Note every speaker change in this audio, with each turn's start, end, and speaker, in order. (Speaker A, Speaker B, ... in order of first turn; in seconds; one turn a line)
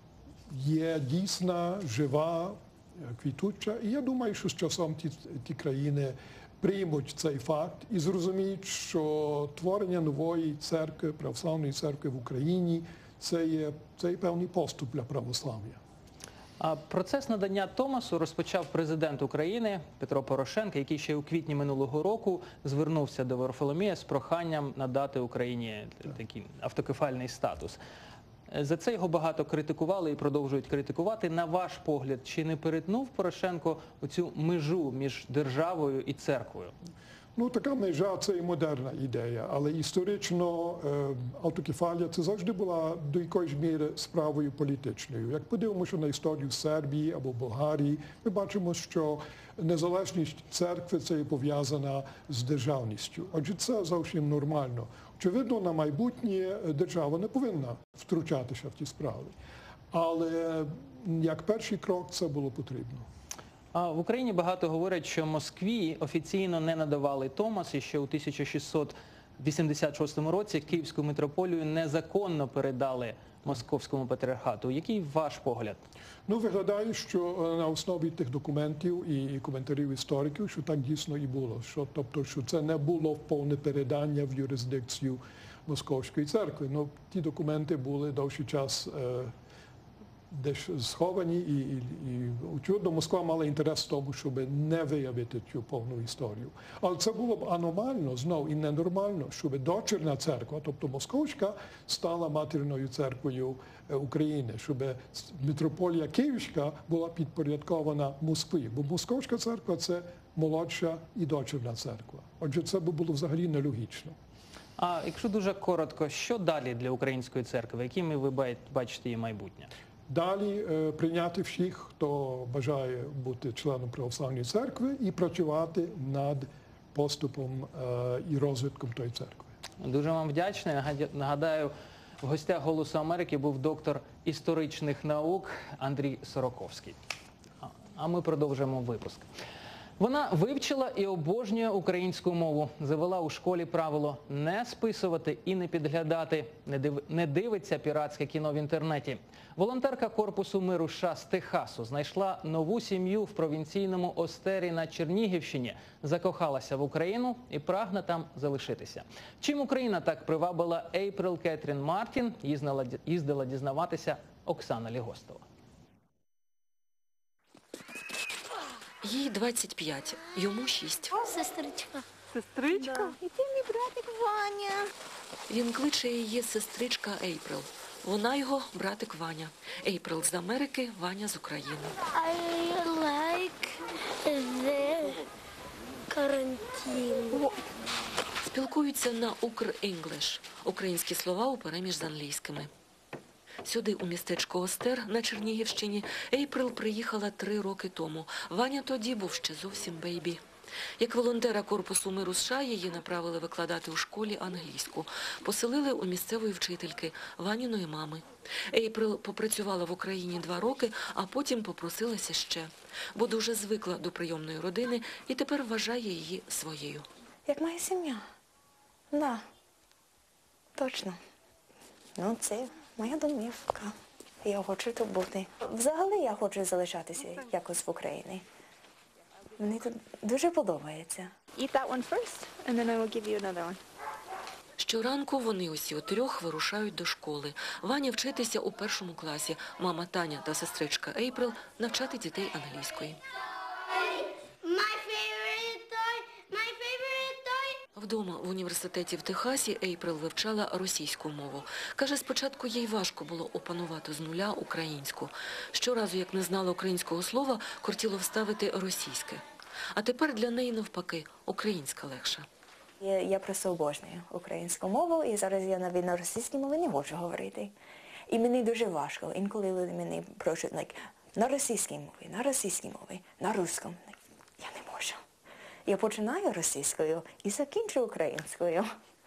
Speaker A: 0.5-15.8
Speaker B: 16.6-27.8
Speaker B: 28.5-36.7
Speaker A: 37.4-59.3
Speaker A: 59.9-63.0
Speaker B: 63.7-75.8
Speaker A: 76.3-89.3
Speaker A: 90.3-114.2
Speaker B: 114.8-119.7
Speaker A: 120.1-129.5
Speaker B: 129.8-137.0
Speaker B: 137.6-139.3
Speaker B: 140.0-165.4
Speaker C: 169.0-171.2
Speaker D: 171.2-172.0
Speaker D: 172.8-173.1
Speaker C: 175.5-181.9
Speaker D: 182.1-185.2
Speaker D: 186.1-187.5
Speaker C: 188.4-192.7
Speaker C: 193.6-200.4
Speaker C: 201.0-217.1
Speaker E: 217.4-218.2
Speaker E: 219.1-219.4
Speaker E: 220.8-221.2
Speaker E: 222.2-228.4
Speaker E: 229.6-231.3
Speaker F: 231.5-233.8
Speaker C: 234.8-243.2
Speaker D: 244.1-247.7
Speaker C: 247.9-259.4
Speaker C: 259.9-262.5
Speaker E: 263.0-267.7
Speaker E: 268.3-275.2
Speaker E: 275.9-278.9